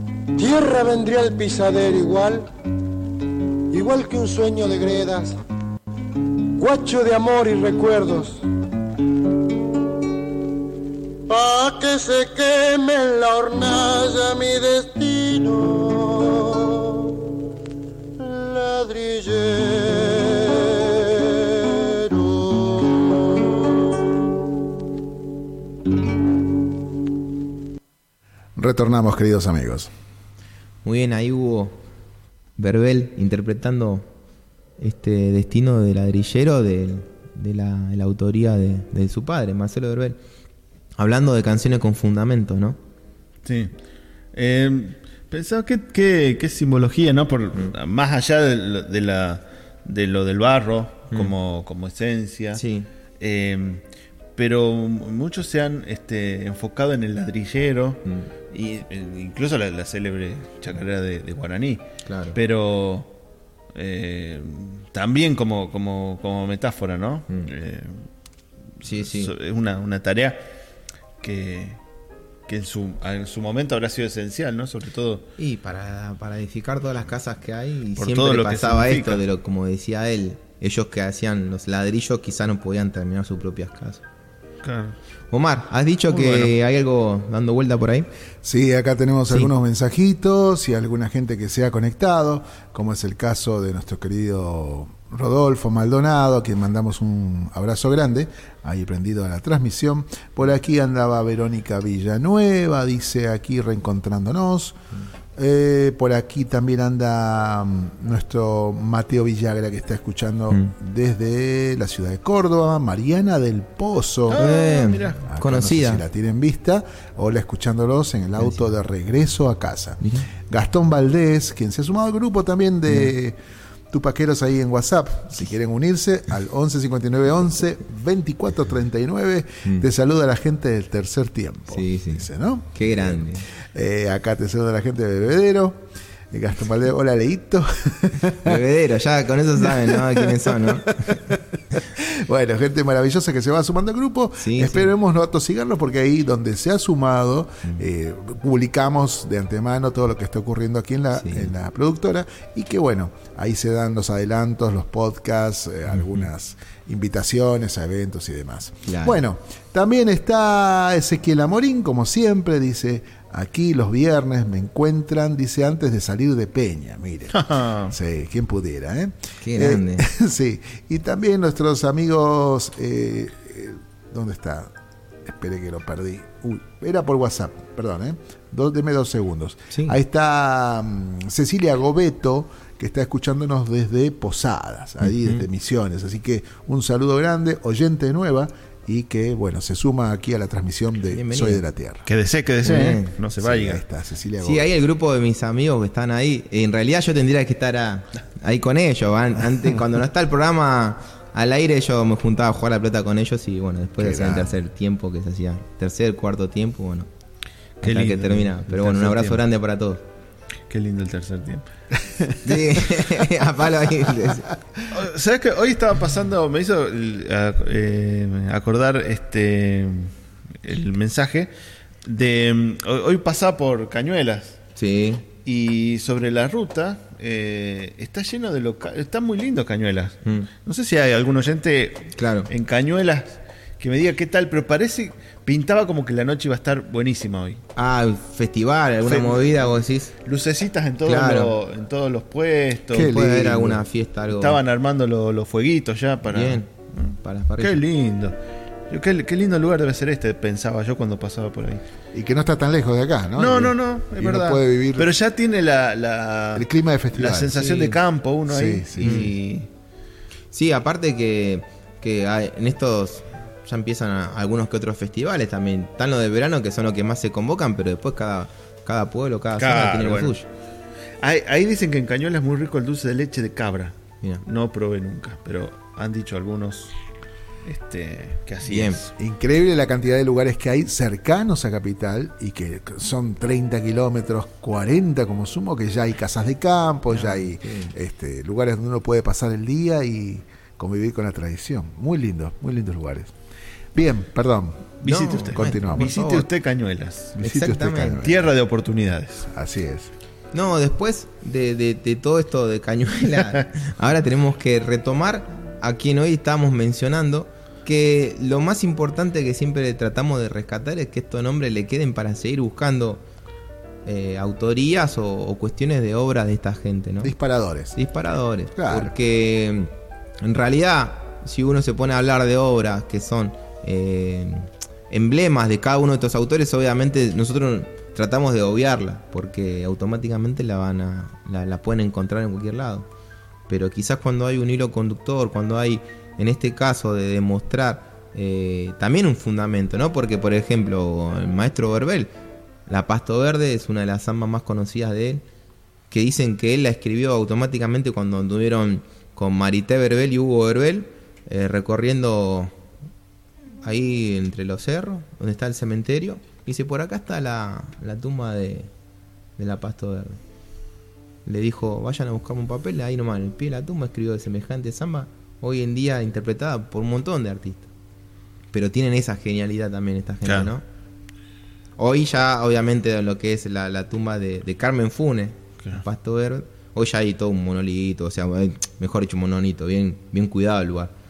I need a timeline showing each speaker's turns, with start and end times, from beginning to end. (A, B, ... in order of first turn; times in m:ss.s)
0:00.4-0:02.5 A
0:03.7-0:05.4 A
0:06.6-0:08.4 A
0:11.3-0:17.2 A
0:18.2-0:23.6 A
0:28.6-0:29.9 B
0:30.8-0:31.8 C
0:32.6-0:34.0 C
0:34.8-0:40.2 C
0:41.0-0:42.8 C
0:43.4-0:43.7 D
0:44.3-0:52.6 D
0:52.5-0:52.9 C
0:53.2-0:53.8 D
0:54.3-1:03.1 D
1:02.0-1:02.4 C
1:03.7-1:08.1 D
1:08.8-1:10.4 D
1:08.8-1:09.3 C
1:11.2-1:11.8 D
1:12.5-1:15.3 D
1:15.4-1:24.0 C
1:18.0-1:19.2 D
1:24.6-1:25.0 D
1:25.3-1:28.1 C
1:26.1-1:26.5 D
1:28.4-1:44.8 B
1:45.4-1:54.4 B
1:54.3-1:55.2 D
1:54.4-1:56.0 C
1:55.3-2:03.4 B
2:00.0-2:00.3 C
2:03.9-2:18.6 B
2:11.7-2:13.4 C
2:18.4-2:21.3 C
2:19.6-2:21.4 B
2:22.0-2:54.7 B
2:24.4-2:24.9 C
2:31.2-2:31.5 C
2:35.9-2:36.2 C
2:38.8-2:39.2 C
2:47.3-2:47.9 D
2:49.4-2:50.1 C
2:55.2-3:12.0 B
2:59.7-3:00.0 C
3:05.0-3:05.4 C
3:11.1-3:11.6 C
3:12.0-3:13.8 D
3:12.6-3:13.2 C
3:13.4-3:14.7 B
3:14.4-3:27.1 C
3:24.0-3:24.5 B
3:27.8-3:29.4 D
3:27.8-3:30.0 C
3:30.7-3:33.0 D
3:32.4-3:34.5 C
3:34.9-3:40.1 D
3:40.6-3:41.5 D
3:42.0-3:44.6 D
3:44.8-3:45.2 C
3:45.4-3:57.6 D
3:52.2-3:52.5 C
3:57.8-4:00.1 C
3:59.0-4:03.1 D
4:01.0-4:01.5 C
4:02.9-4:03.8 B
4:02.9-4:04.6 C
4:04.3-4:08.4 D
4:06.3-4:07.8 C
4:08.9-4:11.8 D
4:12.1-4:15.1 B
4:13.4-4:19.7 D
4:16.5-4:17.7 B
4:17.5-4:17.9 C
4:18.5-4:19.2 B
4:19.0-4:19.3 C
4:20.5-4:30.4 C
4:29.6-4:30.3 D
4:31.2-4:36.9 D
4:37.6-4:39.1 D
4:38.6-4:39.0 C
4:39.2-4:53.3 B
4:47.1-4:47.9 C
4:53.9-4:54.9 B
4:55.0-4:57.4 D
4:55.0-4:56.5 C
4:55.5-4:56.1 B
4:57.4-4:58.2 C
4:57.4-4:58.5 B
4:58.2-4:59.5 D
4:59.5-5:00.1 B
5:00.5-5:13.2 C
5:14.0-5:17.3 C
5:17.2-5:18.0 B
5:18.0-5:19.9 C
5:18.7-5:19.1 B
5:20.4-5:33.1 C
5:33.7-5:42.3 C
5:42.9-5:45.4 C
5:46.1-5:52.7 C
5:53.8-5:58.9 C
5:59.6-6:00.4 C
6:01.4-6:07.9 C
6:08.7-6:10.8 C
6:10.4-6:10.7 D
6:12.0-6:21.1 C